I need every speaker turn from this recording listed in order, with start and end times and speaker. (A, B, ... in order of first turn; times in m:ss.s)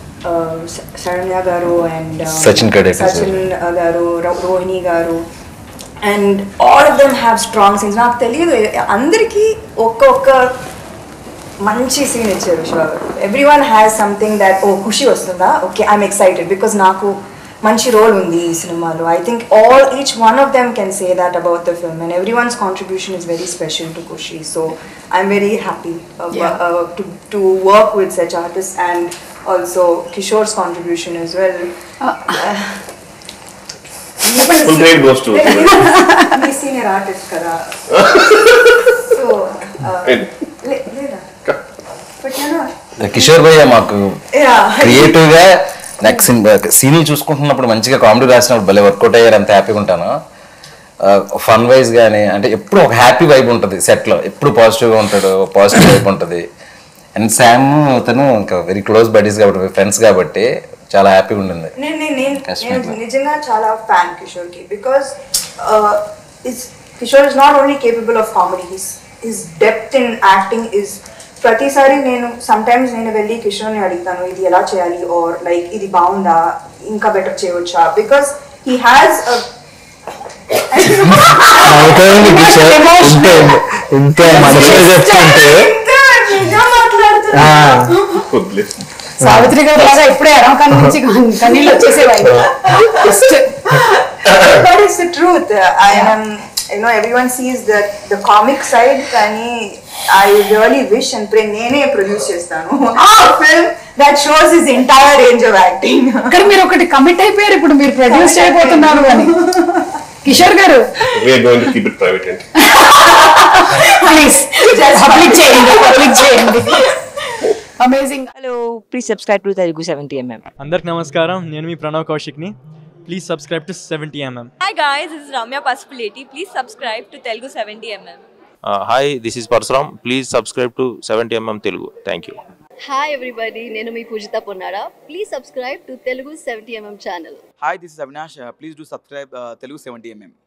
0:00.2-0:05.2 A
0:02.3-0:03.4 B
0:06.0-0:10.5 A
0:11.6-0:31.7 A
0:32.2-0:32.8 A
0:34.2-0:37.8 A
0:34.4-0:36.0 C
0:37.9-0:38.8 C
0:39.0-0:41.3 A
0:42.2-0:43.3 A
0:43.0-0:44.2 B
0:44.3-0:45.2 A
0:44.8-0:50.1 B
0:51.0-0:56.4 B
0:57.2-1:01.7 B
1:01.8-1:19.5 A
1:02.4-1:03.0 B
1:20.7-1:22.5 A
1:21.7-1:25.7 D
1:22.3-1:23.3 E
1:24.2-1:28.2 A
1:24.4-1:24.7 C
1:27.3-1:27.9 D
1:28.2-1:28.7 C
1:29.2-1:32.3 E
1:31.5-1:46.6 A
1:32.1-1:32.5 C
1:33.0-1:33.4 E
1:46.3-1:49.3 E
1:48.0-1:49.8 A
1:50.2-1:50.9 E
1:51.1-1:52.4 C
1:52.7-1:57.5 A
1:54.0-1:56.7 E
1:57.8-1:58.3 E
1:58.3-2:00.4 F
2:00.6-2:02.6 G
2:03.1-2:04.5 G
2:04.6-2:08.2 H
2:08.6-2:12.4 I
2:12.8-2:17.4 J
2:17.6-2:20.4 K